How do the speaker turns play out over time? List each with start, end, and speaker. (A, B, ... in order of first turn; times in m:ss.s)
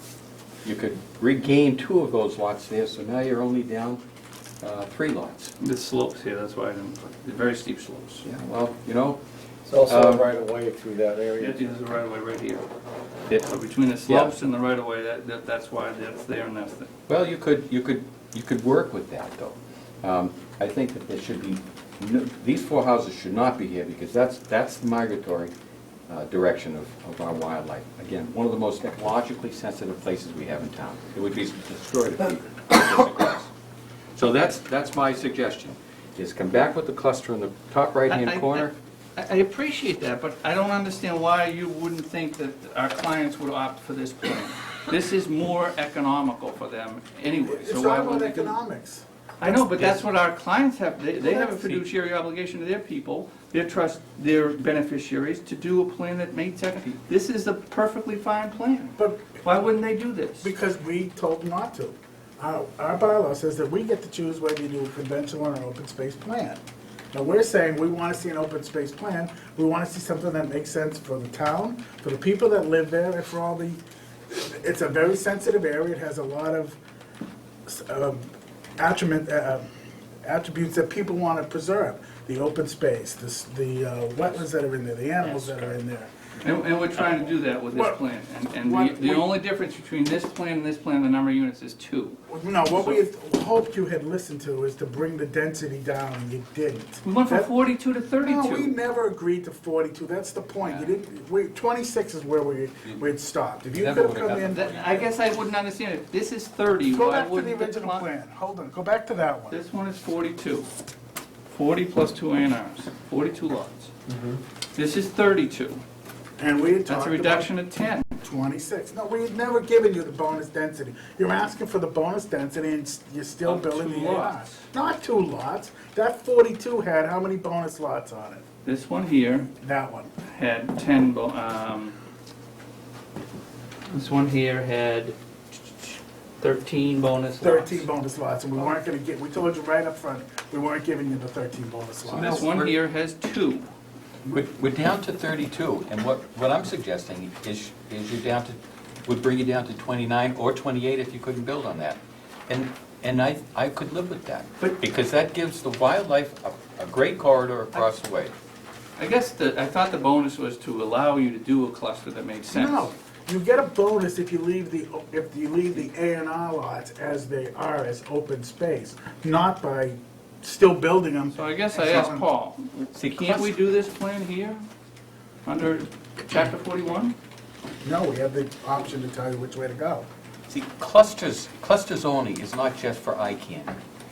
0:00.6-0:04.0 A
0:04.6-0:05.5 A
0:05.6-0:08.2 B
0:08.2-0:09.2 A
0:09.6-0:11.8 C
0:09.8-0:10.3 A
0:11.4-0:12.6 B
0:13.4-0:16.9 B
0:14.0-0:14.3 A
0:17.1-0:25.5 A
0:26.1-0:33.5 A
0:34.2-0:38.7 A
0:38.1-0:48.6 B
0:47.4-0:50.0 D
0:49.4-1:00.5 B
0:51.2-0:51.8 D
0:59.0-0:59.4 D
1:00.4-1:06.6 D
1:07.1-1:16.8 D
1:17.6-1:18.3 D
1:18.8-1:19.6 D
1:20.2-1:26.1 D
1:26.4-1:32.2 B
1:27.7-1:28.0 D
1:28.6-1:29.3 D
1:32.3-1:37.5 D
1:32.7-1:33.0 B
1:37.0-1:38.7 B
1:38.2-1:45.0 D
1:43.7-1:45.0 A
1:44.5-1:48.1 B
1:46.9-1:49.6 D
1:49.5-1:50.7 B
1:51.5-1:53.9 B
1:54.1-1:54.4 C
1:54.7-1:55.8 B
1:56.4-1:57.5 D
1:56.9-1:58.1 B
1:58.2-2:08.4 D
2:03.4-2:04.6 B
2:08.6-2:09.5 B
2:09.6-2:10.1 D
2:10.2-2:12.0 B
2:13.9-2:15.2 B
2:15.8-2:17.9 B
2:17.4-2:22.5 D
2:22.1-2:22.7 A
2:22.1-2:23.7 B
2:24.3-2:38.4 A
2:39.0-2:42.9 B
2:42.5-2:52.3 D
2:51.3-2:54.6 B
2:52.9-2:53.6 A
2:55.4-2:57.1 B
2:57.8-3:00.1 D
3:00.5-3:03.8 A